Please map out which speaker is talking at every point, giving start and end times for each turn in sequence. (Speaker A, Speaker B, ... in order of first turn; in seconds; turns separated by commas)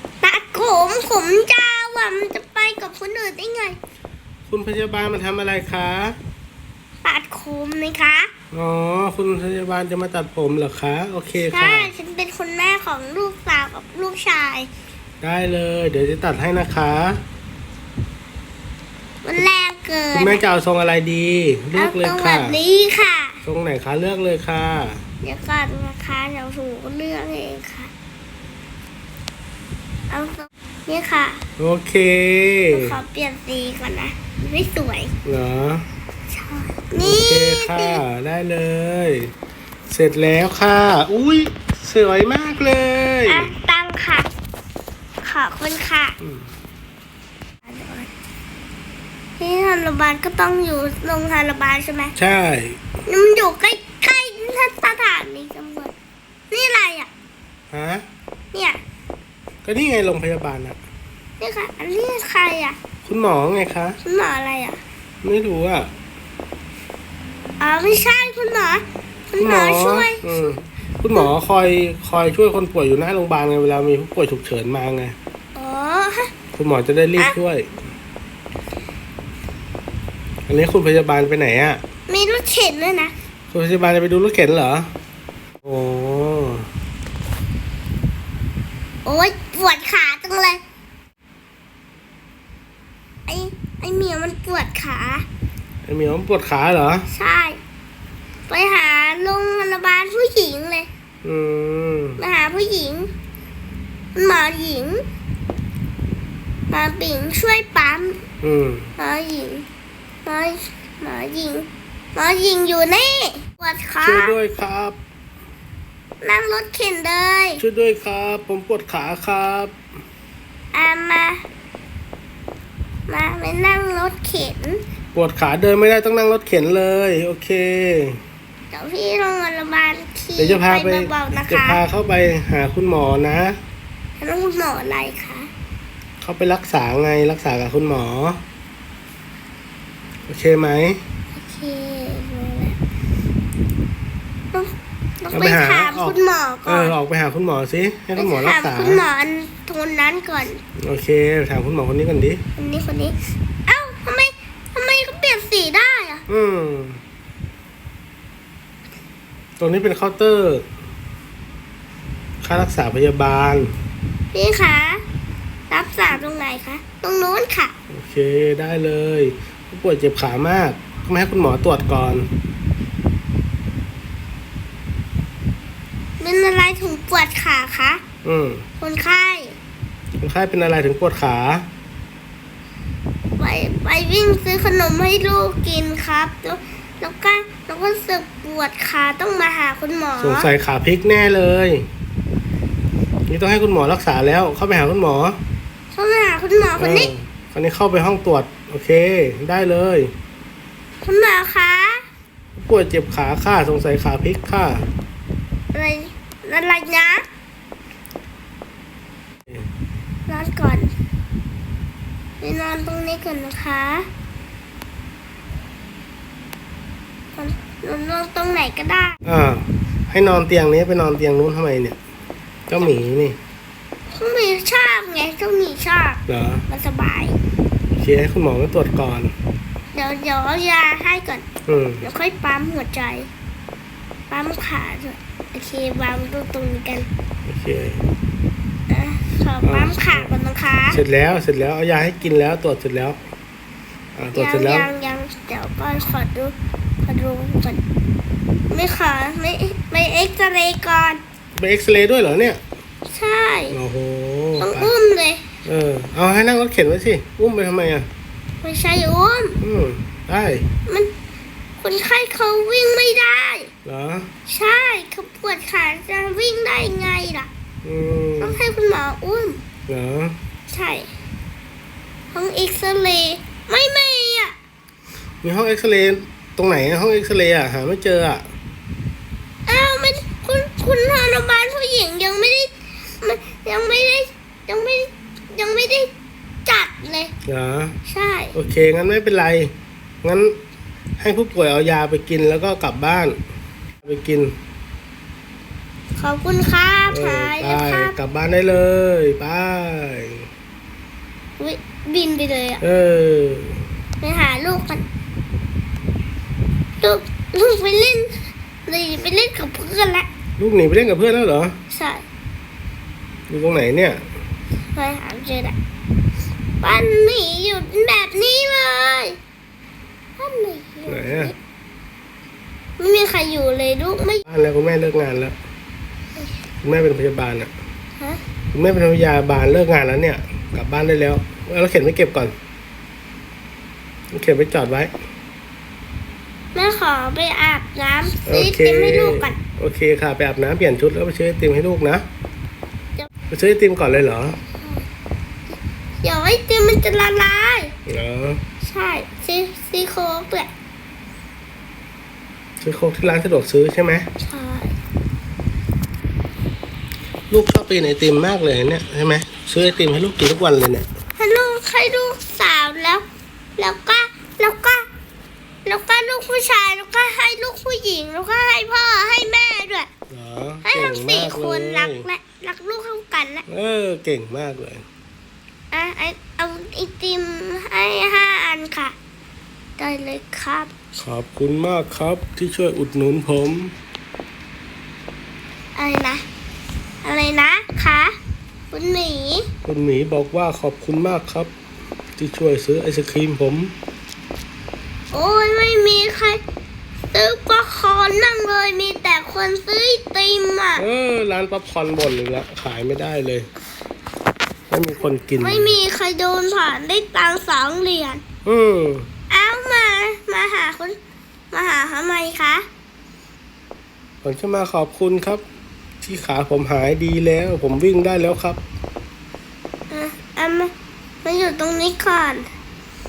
Speaker A: 0.2-3.8, Speaker B: 4.5-6.2, Speaker A: 7.0-8.3, Speaker B: 8.5-11.9, Speaker A: 11.5-14.7, Speaker B: 15.2-17.2, Speaker A: 19.2-20.4, Speaker B: 20.1-22.6, Speaker A: 21.7-23.4, Speaker B: 23.4-25.0, Speaker A: 25.2-27.9, Speaker A: 30.1-31.4, Speaker B: 31.6-33.0, Speaker A: 32.7-35.1, Speaker B: 35.2-35.9, Speaker A: 36.3-38.0, Speaker B: 37.0-39.3, Speaker B: 39.9-43.5, Speaker A: 43.3-44.3, Speaker A: 45.2-46.2, Speaker B: 46.2-46.5, Speaker A: 47.6-48.1, Speaker A: 49.4-52.1, Speaker B: 52.1-52.8, Speaker A: 53.1-55.9, Speaker A: 56.5-57.1, Speaker B: 57.7-58.0, Speaker A: 58.5-58.8, Speaker B: 59.6-60.8, Speaker A: 61.4-62.8, Speaker B: 63.0-64.0, Speaker A: 64.0-64.8, Speaker B: 65.2-65.9, Speaker A: 67.6-70.5, Speaker B: 69.4-75.2, Speaker A: 75.5-76.3, Speaker B: 76.5-77.7, Speaker B: 80.5-81.8, Speaker A: 82.1-83.1, Speaker B: 83.5-84.9, Speaker B: 85.6-86.7, Speaker A: 89.0-90.6, Speaker A: 93.3-95.2, Speaker B: 95.8-97.1, Speaker A: 97.1-97.6, Speaker A: 98.5-100.9, Speaker B: 101.2-102.2, Speaker A: 102.2-103.1, Speaker A: 104.1-105.0, Speaker A: 106.7-108.2, Speaker B: 108.4-108.9, Speaker A: 109.0-109.7, Speaker A: 110.2-114.3, Speaker B: 114.0-115.0, Speaker A: 116.2-117.6, Speaker B: 117.6-119.7, Speaker A: 120.7-121.4, Speaker A: 123.1-124.8, Speaker B: 125.1-128.2, Speaker A: 128.7-131.8, Speaker B: 130.4-133.6, Speaker A: 134.2-135.5, Speaker B: 136.2-138.4, Speaker B: 140.3-141.0, Speaker A: 141.4-142.8, Speaker A: 144.5-146.9, Speaker B: 145.3-149.0, Speaker A: 148.1-150.6, Speaker B: 150.8-152.4, Speaker A: 152.6-156.2, Speaker B: 156.3-157.0, Speaker B: 159.6-160.6, Speaker B: 162.4-163.7, Speaker A: 164.3-165.0, Speaker A: 165.7-167.7, Speaker B: 167.9-172.3, Speaker A: 176.2-178.0, Speaker B: 178.2-178.7, Speaker A: 178.8-179.5, Speaker B: 180.2-181.7, Speaker A: 183.4-190.5, Speaker B: 190.2-191.8, Speaker B: 193.3-195.4, Speaker A: 195.9-197.1, Speaker B: 196.8-200.1, Speaker A: 201.0-202.0, Speaker B: 202.6-204.8, Speaker A: 205.7-207.2, Speaker A: 210.3-210.9, Speaker A: 212.4-214.1, Speaker A: 217.3-219.2, Speaker B: 219.2-222.0, Speaker B: 222.7-223.4, Speaker A: 224.1-227.4, Speaker B: 226.3-226.6, Speaker B: 227.9-229.3, Speaker A: 229.9-231.4, Speaker B: 231.7-232.1, Speaker A: 232.0-233.3, Speaker A: 234.3-237.1, Speaker B: 237.4-238.0, Speaker A: 238.9-241.0, Speaker B: 239.6-240.3, Speaker B: 240.9-243.2, Speaker B: 244.2-244.9, Speaker A: 244.3-247.8, Speaker A: 248.7-251.2, Speaker B: 251.6-252.6, Speaker A: 253.1-253.8, Speaker B: 253.7-254.9, Speaker A: 254.6-255.4, Speaker B: 255.6-258.1, Speaker A: 258.6-259.6, Speaker B: 259.6-260.6, Speaker A: 261.8-263.7, Speaker B: 263.8-264.3, Speaker A: 264.5-267.5, Speaker B: 267.8-268.6, Speaker A: 268.4-269.6, Speaker B: 269.9-270.4, Speaker A: 270.7-271.1, Speaker A: 272.3-274.5, Speaker B: 275.4-278.4, Speaker A: 279.6-286.1, Speaker A: 286.6-287.3, Speaker B: 287.5-288.0, Speaker A: 288.1-288.5, Speaker B: 288.5-289.7, Speaker B: 290.2-290.5, Speaker B: 291.2-293.4, Speaker B: 294.0-294.5, Speaker A: 296.2-298.1, Speaker B: 297.1-300.4, Speaker A: 301.6-302.8, Speaker B: 302.8-303.8, Speaker A: 304.2-305.0, Speaker A: 307.0-310.3, Speaker B: 310.6-311.8, Speaker A: 311.9-312.2, Speaker B: 313.5-314.2, Speaker A: 314.9-315.8, Speaker A: 316.8-319.4, Speaker A: 320.4-321.6, Speaker B: 321.1-321.5, Speaker A: 323.0-324.4, Speaker B: 324.4-325.5, Speaker B: 326.8-327.7, Speaker B: 328.7-332.5, Speaker B: 334.3-335.1, Speaker A: 336.7-339.6, Speaker B: 338.4-342.2, Speaker B: 343.5-344.6, Speaker A: 346.2-347.9, Speaker B: 348.1-348.6, Speaker A: 348.8-350.7, Speaker B: 352.8-354.3, Speaker A: 354.4-354.9, Speaker B: 357.5-361.1, Speaker A: 361.4-363.2, Speaker A: 363.8-365.1, Speaker A: 365.9-370.1, Speaker B: 370.3-372.2, Speaker A: 370.8-373.6, Speaker B: 373.7-375.0, Speaker A: 375.9-379.1, Speaker A: 380.0-380.9, Speaker B: 381.2-383.9, Speaker A: 385.9-386.4, Speaker A: 387.2-388.4, Speaker A: 388.9-389.7, Speaker B: 389.8-391.7, Speaker B: 392.4-393.9, Speaker A: 395.3-396.6, Speaker A: 397.3-401.1, Speaker B: 401.0-403.7, Speaker B: 404.9-406.0, Speaker A: 405.6-408.4, Speaker B: 408.6-409.3, Speaker A: 409.5-411.2, Speaker A: 411.7-412.9, Speaker B: 414.4-415.6, Speaker B: 416.2-418.8, Speaker A: 420.1-420.9, Speaker A: 421.4-422.7